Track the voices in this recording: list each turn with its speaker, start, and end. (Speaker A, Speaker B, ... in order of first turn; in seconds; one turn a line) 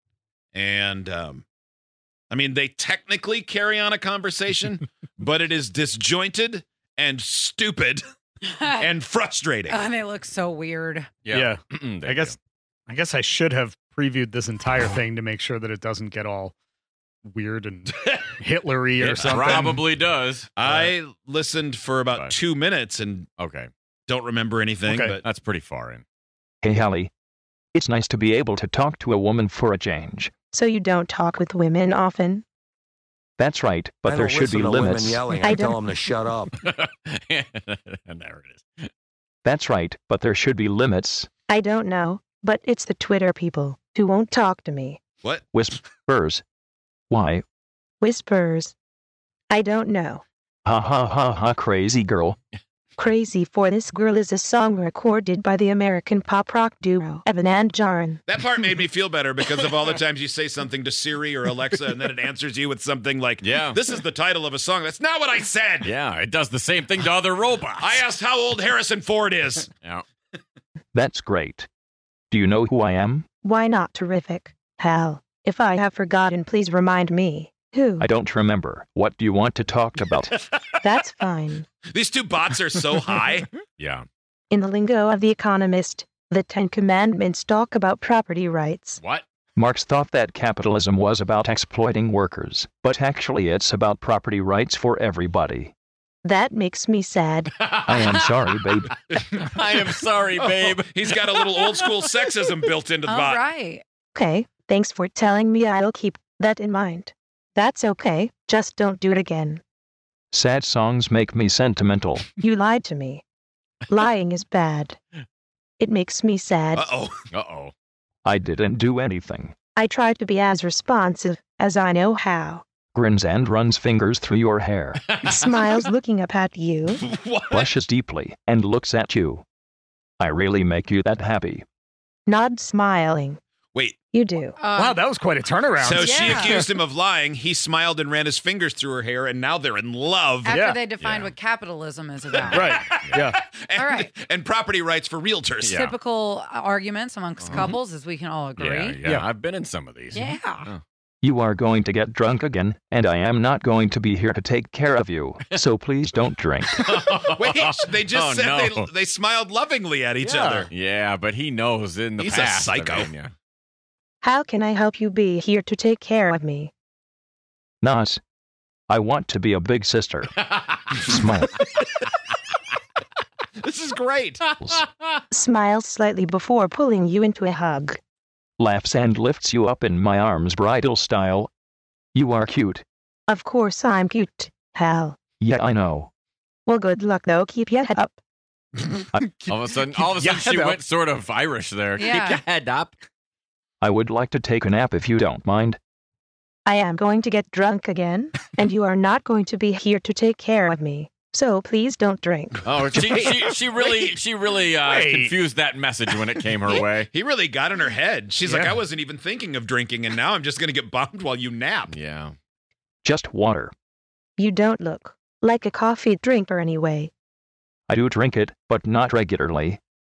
Speaker A: 0.5-1.4
Speaker A: 2.3-8.0
Speaker B: 8.5-8.8
Speaker A: 8.8-9.8
Speaker B: 9.7-11.2
Speaker C: 11.2-12.3
Speaker D: 11.3-12.3
Speaker D: 12.9-16.5
Speaker D: 17.2-19.8
Speaker C: 19.0-20.9
Speaker A: 19.1-19.7
Speaker A: 20.6-23.3
Speaker C: 23.4-23.7
Speaker A: 24.1-25.2
Speaker D: 24.9-25.2
Speaker C: 25.2-26.0
Speaker E: 26.6-27.1
Speaker E: 27.7-30.3
Speaker F: 30.5-32.4
Speaker E: 33.4-35.2
Speaker G: 34.0-36.6
Speaker F: 35.4-35.8
Speaker C: 36.6-38.9
Speaker E: 39.4-41.3
Speaker F: 41.5-45.0
Speaker E: 45.5-46.4
Speaker E: 47.1-47.4
Speaker F: 48.0-48.7
Speaker F: 49.5-50.2
Speaker E: 50.6-52.4
Speaker F: 53.0-58.2
Speaker A: 58.3-65.9
Speaker C: 63.4-63.8
Speaker C: 65.8-68.0
Speaker A: 67.8-69.7
Speaker E: 70.9-71.7
Speaker E: 72.3-73.3
Speaker F: 73.4-78.1
Speaker E: 78.0-80.3
Speaker F: 80.8-81.7
Speaker A: 81.9-83.5
Speaker C: 83.8-84.0
Speaker F: 84.5-89.0
Speaker C: 89.0-89.2
Speaker E: 89.5-95.7
Speaker F: 96.2-97.5
Speaker C: 97.6-98.0
Speaker E: 97.8-98.9
Speaker C: 99.1-101.9
Speaker A: 100.4-103.4
Speaker B: 103.0-103.8
Speaker F: 104.1-109.6
Speaker E: 110.3-112.3
Speaker F: 112.4-113.2
Speaker F: 113.9-115.0
Speaker F: 115.8-116.9
Speaker A: 116.7-117.2
Speaker C: 117.3-117.7
Speaker E: 118.2-119.5
Speaker F: 119.8-122.6
Speaker E: 122.9-125.0
Speaker C: 125.1-125.4
Speaker F: 125.2-127.0
Speaker A: 127.0-127.7
Speaker E: 127.5-129.4
Speaker E: 130.2-131.6
Speaker F: 132.3-133.4
Speaker F: 134.1-134.6
Speaker B: 134.6-135.0
Speaker D: 134.7-136.7
Speaker A: 135.8-140.6
Speaker B: 136.1-136.6
Speaker B: 140.4-142.6
Speaker D: 140.5-140.8
Speaker C: 141.0-141.3
Speaker A: 142.3-145.8
Speaker D: 142.5-143.4
Speaker C: 142.5-143.2
Speaker B: 143.7-144.1
Speaker C: 145.6-146.0
Speaker B: 145.7-149.0
Speaker C: 147.4-147.8
Speaker C: 148.6-150.8
Speaker B: 150.1-150.7
Speaker E: 151.2-156.9
Speaker C: 156.7-158.9
Speaker A: 157.3-160.7
Speaker D: 160.2-160.7
Speaker C: 160.7-163.3
Speaker A: 162.2-163.1
Speaker F: 164.2-166.7
Speaker E: 167.8-168.2
Speaker E: 168.9-170.3
Speaker E: 171.0-171.6
Speaker A: 173.6-174.4
Speaker C: 174.5-174.8
Speaker F: 175.3-178.0
Speaker E: 178.6-181.5
Speaker E: 182.1-182.8
Speaker F: 183.3-185.2
Speaker E: 185.4-186.1
Speaker F: 186.7-188.2
Speaker D: 189.1-190.8
Speaker C: 189.4-193.0
Speaker B: 192.0-192.4
Speaker E: 193.8-195.8
Speaker F: 196.7-202.8
Speaker C: 202.6-207.1
Speaker A: 203.8-204.1
Speaker D: 204.8-205.3
Speaker A: 207.0-211.9
Speaker D: 208.5-208.8
Speaker C: 211.9-212.3
Speaker E: 213.0-213.7
Speaker F: 214.4-217.1
Speaker E: 217.9-219.8